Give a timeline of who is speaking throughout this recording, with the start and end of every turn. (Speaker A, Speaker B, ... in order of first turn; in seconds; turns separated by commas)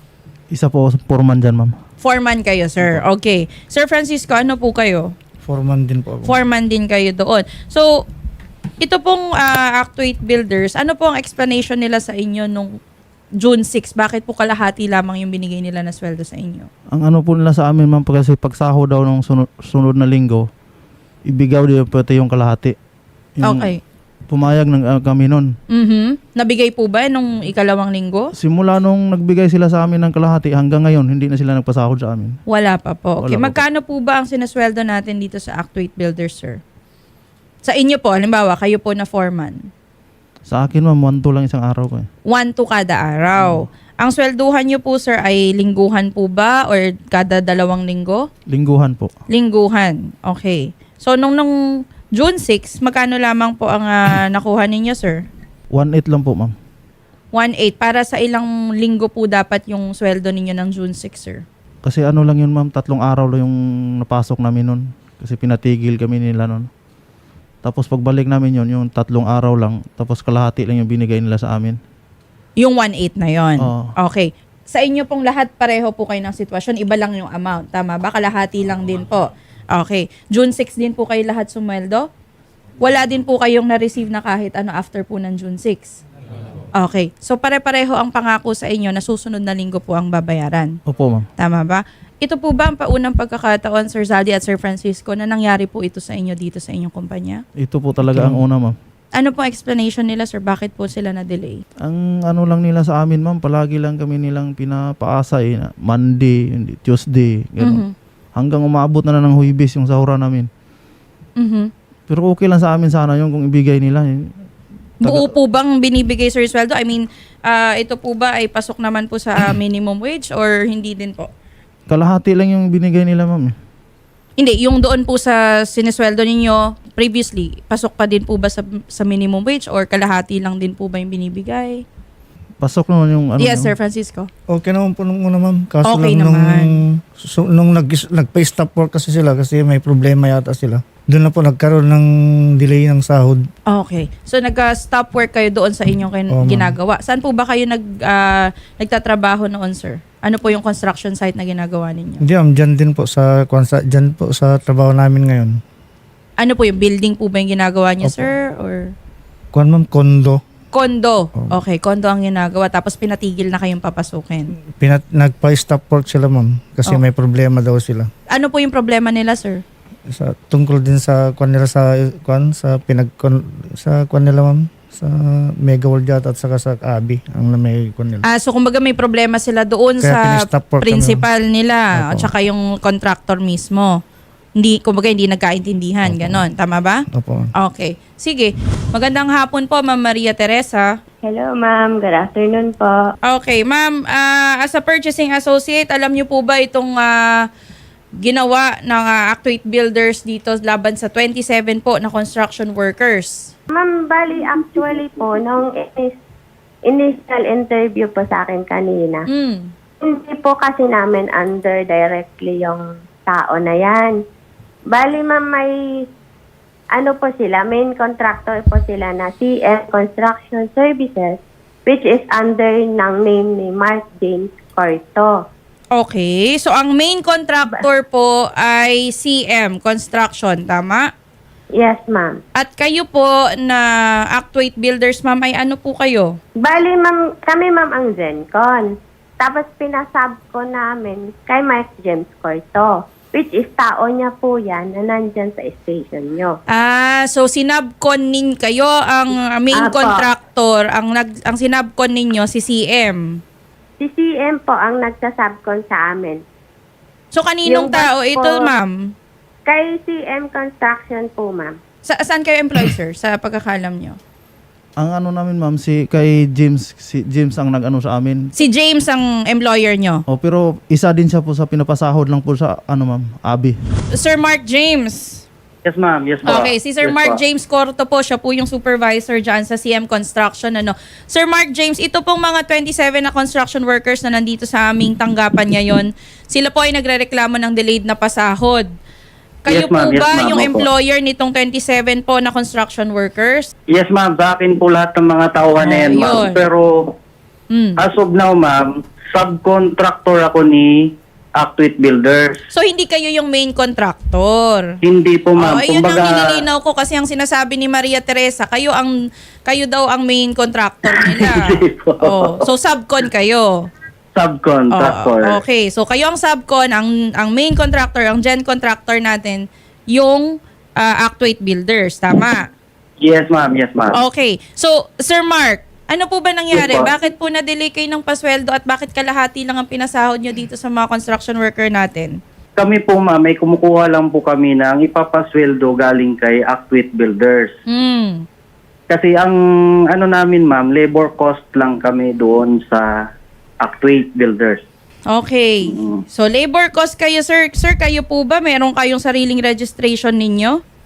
Speaker A: 0.5-1.7, Speaker B: 2.0-5.1, Speaker C: 5.5-6.4, Speaker B: 6.2-7.9, Speaker B: 8.8-12.7, Speaker B: 13.4-16.7, Speaker A: 16.9-20.4, Speaker A: 21.3-22.8, Speaker A: 23.4-23.7, Speaker B: 23.4-23.8, Speaker A: 24.3-25.5, Speaker B: 25.7-28.3, Speaker A: 28.4-32.4, Speaker B: 32.5-36.6, Speaker A: 33.2-33.6, Speaker B: 37.6-39.6, Speaker A: 40.5-42.1, Speaker B: 42.3-48.3, Speaker A: 43.4-43.6, Speaker A: 48.5-49.1, Speaker B: 49.3-51.5, Speaker B: 52.2-55.2, Speaker A: 55.7-56.5, Speaker B: 57.3-61.4, Speaker A: 61.9-66.7, Speaker A: 67.6-71.8, Speaker B: 72.6-82.1, Speaker A: 73.6-73.9, Speaker B: 82.8-86.0, Speaker B: 86.8-90.8, Speaker A: 90.9-91.3, Speaker B: 91.4-97.4, Speaker A: 97.6-98.8, Speaker B: 99.2-101.6, Speaker A: 101.8-107.8, Speaker B: 107.6-107.9, Speaker A: 108.4-110.5, Speaker B: 111.4-111.7, Speaker A: 112.1-114.3, Speaker A: 115.0-115.3, Speaker B: 115.0-121.3, Speaker A: 121.9-123.5, Speaker B: 124.4-131.8, Speaker A: 132.6-133.7, Speaker B: 133.4-134.3, Speaker C: 134.5-143.4, Speaker B: 135.8-136.8, Speaker B: 143.7-152.2, Speaker C: 146.3-146.8, Speaker C: 152.2-155.6, Speaker B: 156.4-158.9, Speaker C: 158.0-158.3, Speaker C: 159.5-160.4, Speaker B: 160.7-164.5, Speaker C: 164.8-168.1, Speaker B: 168.3-169.6, Speaker C: 170.1-178.2, Speaker B: 178.3-184.0, Speaker C: 180.0-181.2, Speaker C: 181.9-182.3, Speaker B: 184.6-187.0, Speaker C: 186.1-186.4, Speaker C: 187.1-187.5, Speaker B: 187.6-190.9, Speaker D: 191.2-193.0, Speaker B: 193.2-197.2, Speaker B: 198.2-203.5, Speaker D: 203.7-206.2, Speaker D: 206.9-209.2, Speaker B: 209.3-209.7, Speaker D: 210.0-214.2, Speaker D: 214.9-215.7, Speaker D: 216.9-225.4, Speaker B: 225.9-231.1, Speaker D: 231.8-232.4, Speaker B: 232.6-236.3, Speaker D: 236.6-238.9, Speaker D: 239.4-246.6, Speaker B: 246.7-253.4, Speaker D: 249.8-250.3, Speaker D: 254.0-256.4, Speaker B: 257.3-258.9, Speaker D: 257.7-258.7, Speaker D: 259.7-261.8, Speaker B: 262.1-264.2, Speaker A: 265.0-268.5, Speaker B: 268.6-270.2, Speaker A: 270.3-273.8, Speaker B: 274.1-275.4, Speaker E: 275.9-277.4, Speaker B: 276.4-288.9, Speaker B: 289.6-293.7, Speaker E: 289.7-290.9, Speaker E: 293.9-297.1, Speaker B: 295.8-296.6, Speaker B: 297.7-298.0, Speaker E: 298.0-301.0, Speaker E: 301.6-302.6, Speaker B: 302.7-304.9, Speaker E: 305.0-306.6, Speaker B: 305.6-309.1, Speaker B: 309.7-313.9, Speaker E: 311.1-312.6, Speaker E: 314.4-315.6, Speaker B: 314.9-322.7, Speaker E: 323.2-324.2, Speaker B: 324.1-332.4, Speaker E: 326.7-327.1, Speaker E: 332.8-337.7, Speaker B: 337.9-338.4, Speaker E: 339.1-339.6, Speaker E: 340.1-343.1, Speaker E: 343.8-344.9, Speaker B: 345.3-350.8, Speaker E: 345.9-346.2